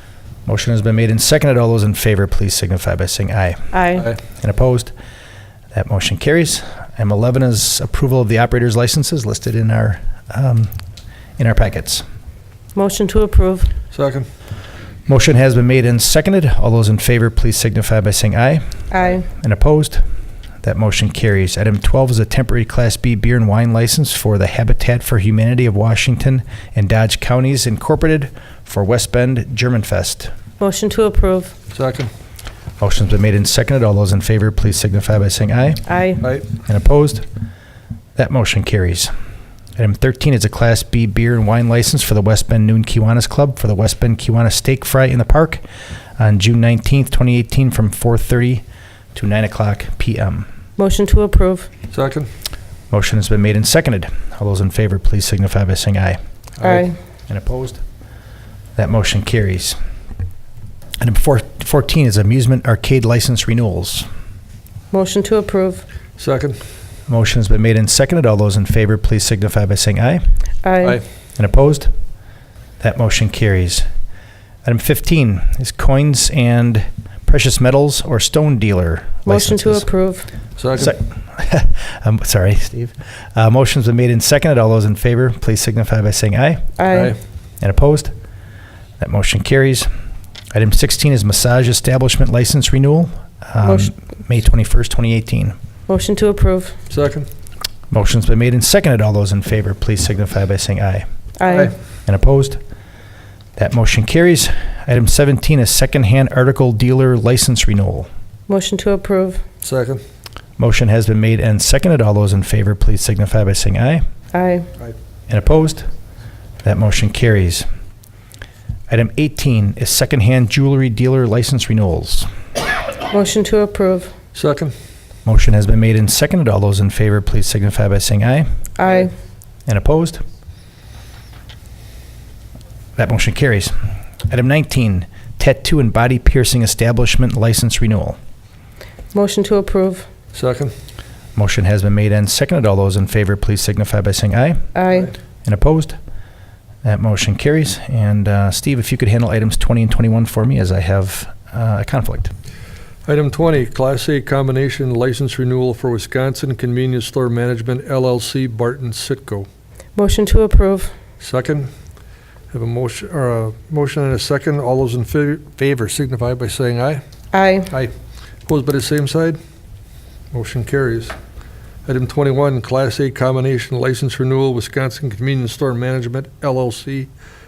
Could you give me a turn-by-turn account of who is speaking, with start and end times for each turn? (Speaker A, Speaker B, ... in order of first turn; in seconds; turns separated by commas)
Speaker A: 0.5-3.7, Speaker B: 3.7-4.1, Speaker A: 4.4-4.9, Speaker A: 5.7-10.7, Speaker A: 11.4-12.0, Speaker B: 12.7-13.7, Speaker C: 13.9-14.3, Speaker A: 15.1-20.0, Speaker B: 18.9-19.2, Speaker A: 20.6-30.3, Speaker B: 30.6-31.5, Speaker C: 31.7-32.1, Speaker A: 32.8-35.9, Speaker B: 35.9-36.2, Speaker A: 36.5-37.2, Speaker A: 38.2-39.1, Speaker A: 39.8-45.6, Speaker A: 46.2-48.6, Speaker A: 49.1-50.5, Speaker B: 50.8-51.7, Speaker C: 51.9-52.3, Speaker A: 52.9-56.2, Speaker B: 56.6-56.9, Speaker A: 57.3-57.8, Speaker A: 58.8-59.8, Speaker A: 61.0-64.1, Speaker B: 64.9-65.8, Speaker C: 66.2-66.6, Speaker A: 67.1-70.2, Speaker B: 70.6-71.0, Speaker A: 71.4-71.9, Speaker A: 72.8-73.8, Speaker A: 74.6-79.8, Speaker B: 79.2-80.3, Speaker C: 80.6-80.9, Speaker A: 80.8-86.7, Speaker B: 86.8-87.2, Speaker C: 86.9-87.2, Speaker A: 87.6-88.1, Speaker A: 89.0-89.9, Speaker A: 90.5-95.5, Speaker B: 93.6-93.9, Speaker B: 95.9-96.8, Speaker C: 96.9-97.3, Speaker A: 97.9-101.0, Speaker B: 101.4-101.7, Speaker C: 101.5-101.7, Speaker A: 102.0-102.6, Speaker A: 103.6-108.1, Speaker B: 108.5-109.4, Speaker C: 109.6-110.0, Speaker A: 110.6-114.0, Speaker B: 114.3-114.7, Speaker A: 115.3-115.9, Speaker A: 116.6-117.7, Speaker A: 118.9-122.3, Speaker B: 123.1-124.1, Speaker C: 124.3-124.7, Speaker A: 125.2-128.5, Speaker B: 128.8-129.1, Speaker A: 129.7-130.2, Speaker A: 133.0-133.7, Speaker A: 134.2-138.2, Speaker B: 139.1-140.1, Speaker C: 140.3-140.7, Speaker A: 141.3-144.6, Speaker B: 144.7-145.1, Speaker A: 145.4-146.0, Speaker A: 146.8-152.3, Speaker C: 153.1-159.5, Speaker B: 159.9-160.9, Speaker C: 161.2-161.7, Speaker C: 162.5-167.0, Speaker B: 167.3-167.7, Speaker C: 168.5-169.4, Speaker C: 170.3-171.1, Speaker C: 171.8-177.1